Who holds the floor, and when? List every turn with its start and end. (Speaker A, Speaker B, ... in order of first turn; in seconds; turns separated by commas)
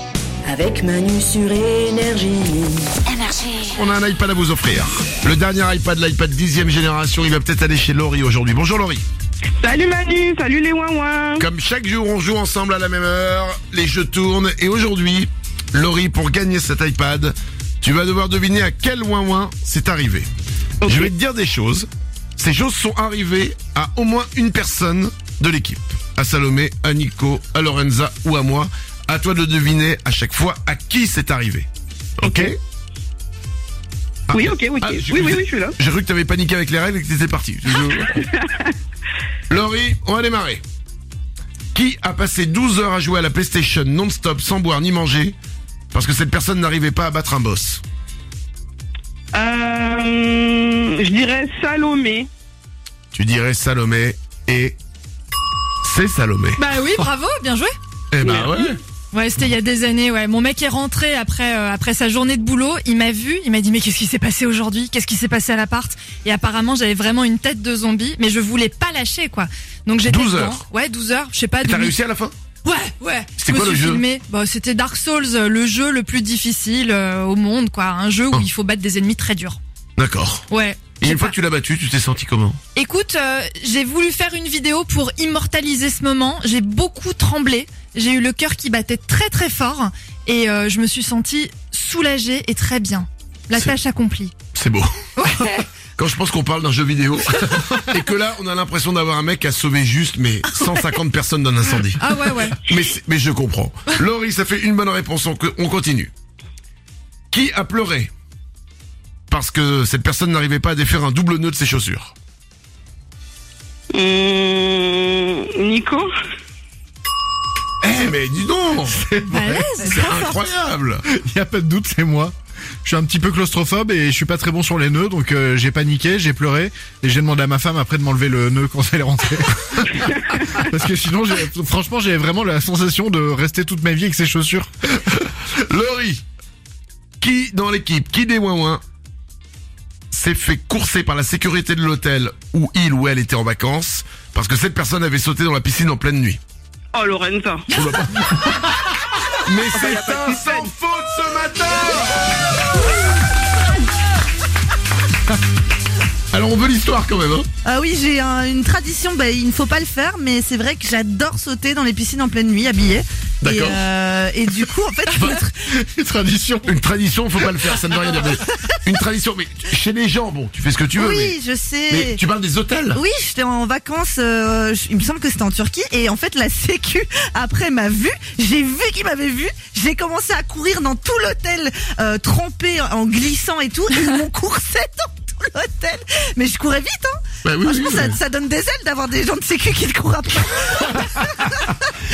Speaker A: 0.5-3.0, Speaker B: 3.6-9.1, Speaker C: 9.6-11.4, Speaker B: 11.4-20.3, Speaker C: 20.8-21.1, Speaker B: 20.9-31.7, Speaker B: 32.2-32.6, Speaker C: 32.2-32.5, Speaker B: 34.3-38.2, Speaker C: 34.3-35.7, Speaker C: 38.3-38.7, Speaker B: 39.5-40.6, Speaker B: 41.7-45.4, Speaker B: 45.9-47.8, Speaker C: 49.3-52.3, Speaker B: 53.1-54.8, Speaker B: 55.8-56.6, Speaker D: 56.6-57.7, Speaker B: 58.1-58.8, Speaker C: 58.2-58.6, Speaker D: 59.1-72.0, Speaker B: 70.1-70.6, Speaker B: 71.6-72.3, Speaker D: 72.6-79.6, Speaker B: 73.4-74.0, Speaker B: 80.0-80.5, Speaker D: 80.5-81.3, Speaker B: 81.0-82.6, Speaker D: 82.8-94.3, Speaker B: 94.5-95.1, Speaker D: 95.2-95.7, Speaker B: 96.0-102.0, Speaker E: 100.5-101.0, Speaker D: 102.0-102.7, Speaker B: 102.7-106.1, Speaker B: 107.3-108.1, Speaker B: 109.3-112.1, Speaker C: 113.9-116.1, Speaker B: 117.8-119.0, Speaker F: 118.9-119.7, Speaker D: 119.3-120.0, Speaker E: 119.8-120.4, Speaker B: 119.8-121.0, Speaker F: 121.1-122.3, Speaker F: 122.8-134.7, Speaker B: 135.1-136.2, Speaker B: 137.2-138.8, Speaker B: 140.1-146.4, Speaker C: 146.9-147.7, Speaker B: 147.7-148.8, Speaker B: 149.3-152.3, Speaker C: 149.7-150.7, Speaker B: 156.3-157.5, Speaker E: 157.6-165.6, Speaker B: 163.4-163.8, Speaker F: 165.2-166.7, Speaker B: 166.7-171.4, Speaker E: 171.0-172.2, Speaker B: 171.9-173.0, Speaker E: 172.9-191.8, Speaker B: 187.4-188.2